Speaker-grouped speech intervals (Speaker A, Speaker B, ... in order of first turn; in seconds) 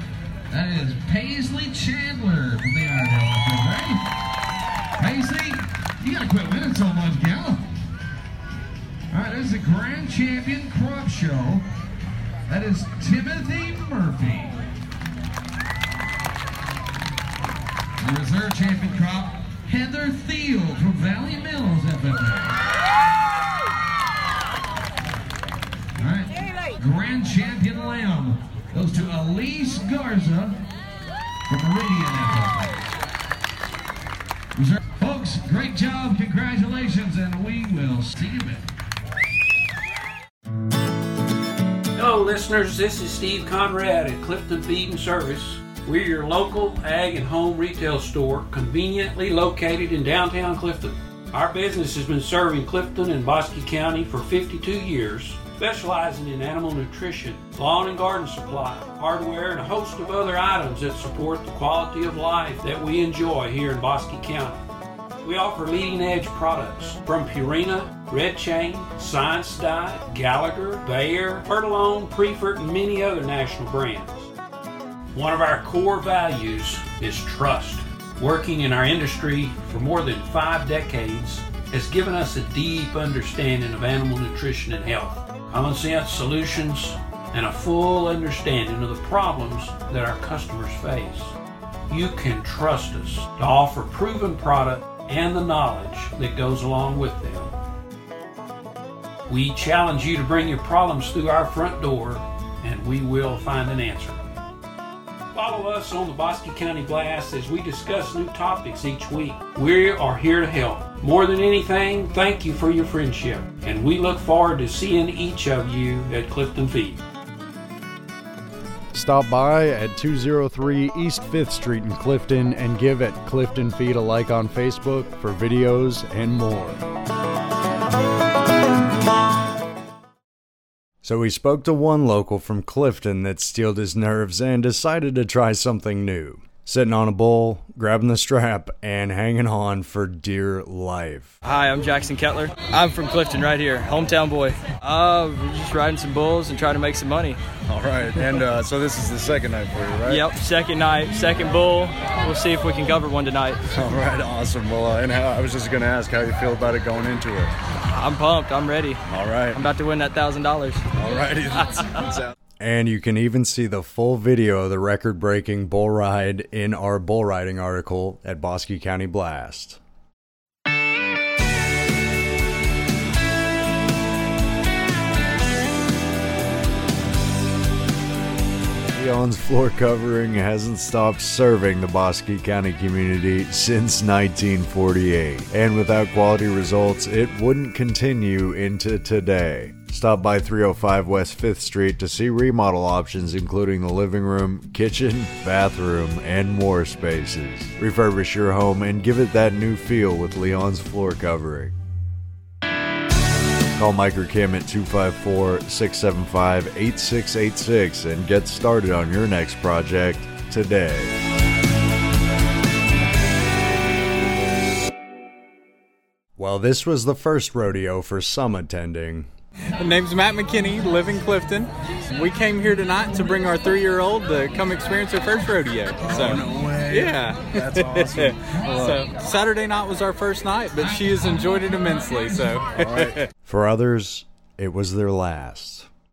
Speaker A: 0.5-4.0, 5.0-7.6, 9.1-11.6, 12.5-14.6, 18.0-22.6, 26.0-30.6, 31.5-32.8, 34.5-38.6
Speaker B: 42.0-64.6, 65.2-74.3, 75.1-91.3, 91.9-97.5, 99.3-104.2, 105.3-117.0
Speaker C: 118.9-126.8, 131.0-141.3, 147.7-148.0, 148.7-150.1, 153.9-156.9, 162.6-169.8, 178.9-201.7, 203.7-211.2, 216.4-219.3, 233.4-235.9
Speaker D: 141.4-147.4, 148.2-148.5, 150.1-153.6, 157.8-160.8, 161.6-162.1
Speaker E: 147.9-150.1, 153.8-157.4, 161.0-161.5
Speaker F: 219.8-233.2